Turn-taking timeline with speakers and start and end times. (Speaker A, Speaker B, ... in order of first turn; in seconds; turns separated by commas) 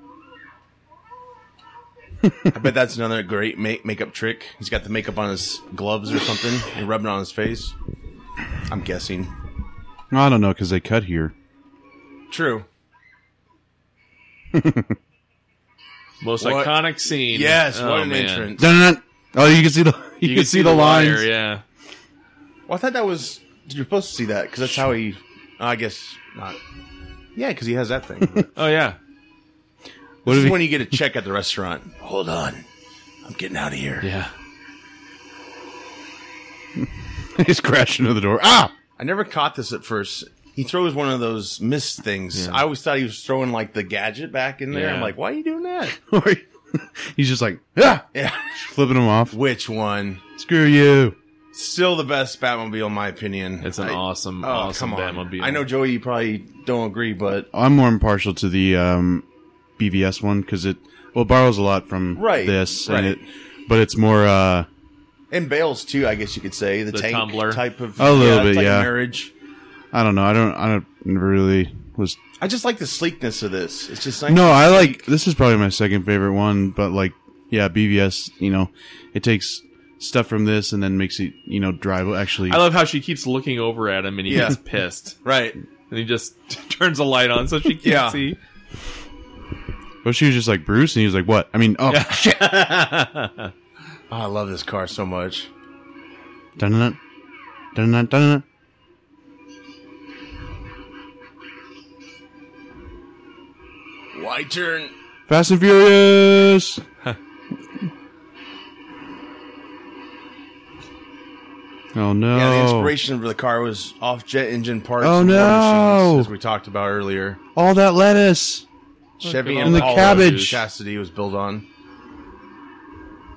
Speaker A: 2.2-2.5, Speaker B: 2.5-7.8, Speaker B: 8.7-9.3, Speaker A: 10.1-11.3, Speaker B: 12.3-12.7, Speaker A: 14.5-15.0, Speaker C: 16.2-18.5, Speaker B: 16.4-18.7, Speaker A: 18.6-21.3, Speaker C: 20.2-21.6, Speaker B: 22.7-26.6, Speaker B: 27.4-28.5, Speaker C: 28.6-29.0, Speaker A: 30.2-30.9, Speaker B: 30.2-32.7, Speaker B: 33.2-34.1, Speaker C: 34.0-34.3, Speaker A: 36.8-38.7, Speaker B: 39.0-46.0, Speaker C: 42.4-42.6, Speaker C: 44.7-45.1, Speaker A: 46.0-49.4, Speaker B: 48.1-48.5, Speaker B: 49.3-50.2, Speaker A: 50.4-51.2, Speaker B: 51.5-57.5, Speaker C: 53.6-55.7, Speaker A: 57.5-59.2, Speaker A: 59.8-64.7, Speaker B: 62.1-63.2, Speaker B: 65.3-69.3, Speaker C: 66.9-67.6, Speaker A: 68.0-68.9, Speaker A: 69.9-72.2, Speaker B: 72.4-75.1, Speaker A: 74.3-82.7, Speaker C: 82.5-85.2, Speaker B: 84.3-84.6, Speaker B: 85.2-85.6, Speaker C: 85.9-88.4, Speaker B: 87.8-88.2, Speaker A: 90.0-92.4, Speaker C: 91.9-93.5, Speaker B: 94.1-95.5, Speaker A: 96.6-97.0, Speaker A: 97.7-98.4, Speaker B: 104.1-104.9, Speaker A: 105.3-106.8, Speaker A: 111.9-112.9, Speaker B: 112.3-117.4, Speaker A: 115.0-116.3, Speaker A: 117.5-118.7, Speaker B: 119.2-121.7, Speaker C: 119.2-120.6, Speaker A: 119.6-120.6